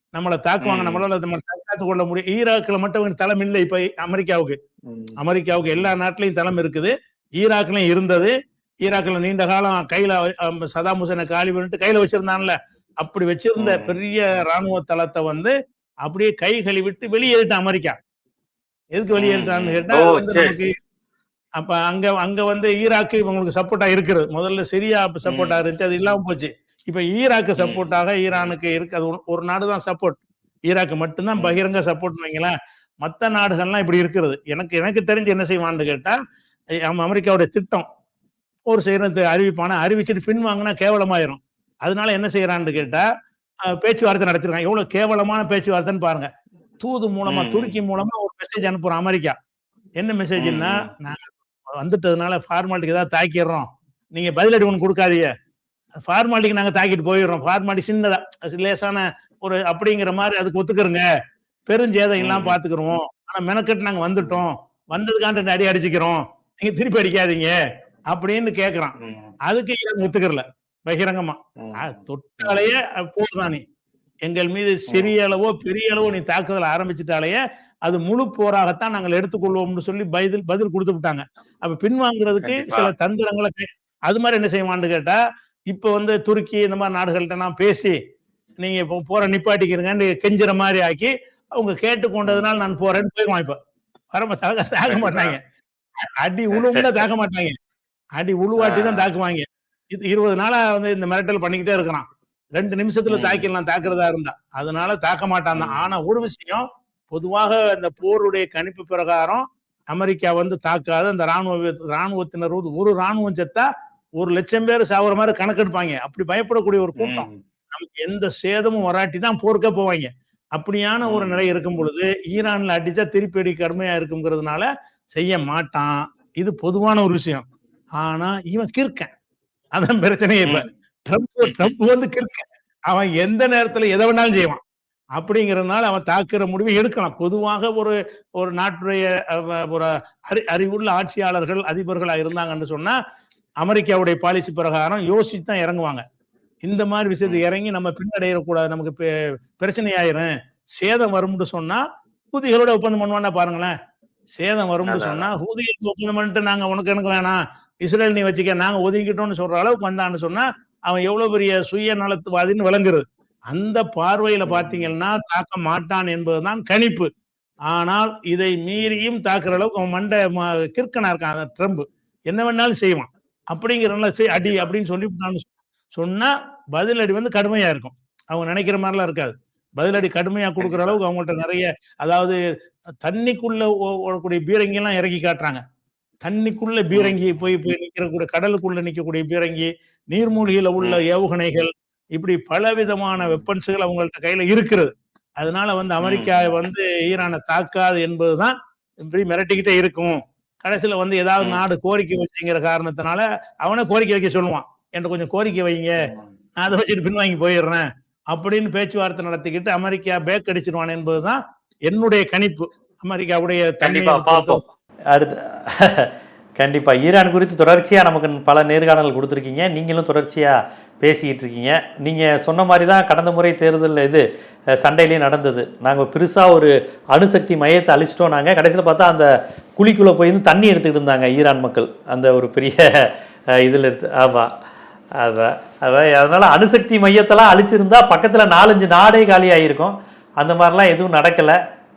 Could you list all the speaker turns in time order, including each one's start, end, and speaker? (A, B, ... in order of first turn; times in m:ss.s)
0:00.1-0:04.6 A
0:00.6-0:01.0 B
0:04.9-0:05.2 B
0:05.2-0:15.5 A
0:13.6-0:13.9 B
0:16.0-0:18.0 A
0:19.0-0:20.7 A
0:19.2-0:20.5 B
0:21.6-0:30.2 A
0:25.3-0:25.6 B
0:27.6-0:27.9 B
0:30.7-0:32.5 A
0:33.0-0:36.2 A
0:36.8-0:37.8 A
0:38.7-0:43.0 A
0:43.7-0:46.3 A
0:46.8-0:49.4 A
0:47.3-0:47.7 B
0:50.0-0:55.3 A
0:50.4-0:50.8 B
0:56.1-1:01.0 A
1:01.7-1:07.5 A
1:02.2-1:02.6 B
1:08.1-1:08.9 A
1:09.0-1:09.3 B
1:09.5-1:13.6 A
1:11.6-1:11.9 B
1:14.2-1:25.2 A
1:14.9-1:15.1 B
1:22.4-1:22.9 B
1:25.7-1:28.0 A
1:28.6-1:33.6 A
1:34.1-1:35.4 A
1:34.9-1:35.3 B
1:36.0-1:37.6 A
1:36.5-1:37.0 B
1:38.2-1:53.7 A
1:38.6-1:39.1 B
1:43.1-1:43.5 B
1:45.5-1:45.8 B
1:54.2-2:07.4 A
1:57.0-1:57.4 B
2:01.0-2:01.4 B
2:08.0-2:09.1 A
2:09.8-2:14.6 A
2:11.4-2:11.7 B
2:15.2-2:23.0 A
2:23.6-2:26.0 A
2:26.6-2:29.1 A
2:29.6-2:33.7 A
2:34.3-2:47.1 A
2:34.8-2:35.2 B
2:44.4-2:44.9 B
2:47.7-3:02.4 A
3:00.6-3:01.0 B
3:03.0-3:05.6 A
3:06.2-3:26.0 A
3:16.0-3:16.4 B
3:21.4-3:21.6 B
3:26.6-3:34.6 A
3:33.8-3:34.6 B
3:35.1-3:44.2 C
3:44.8-3:54.5 C
3:55.2-4:01.6 C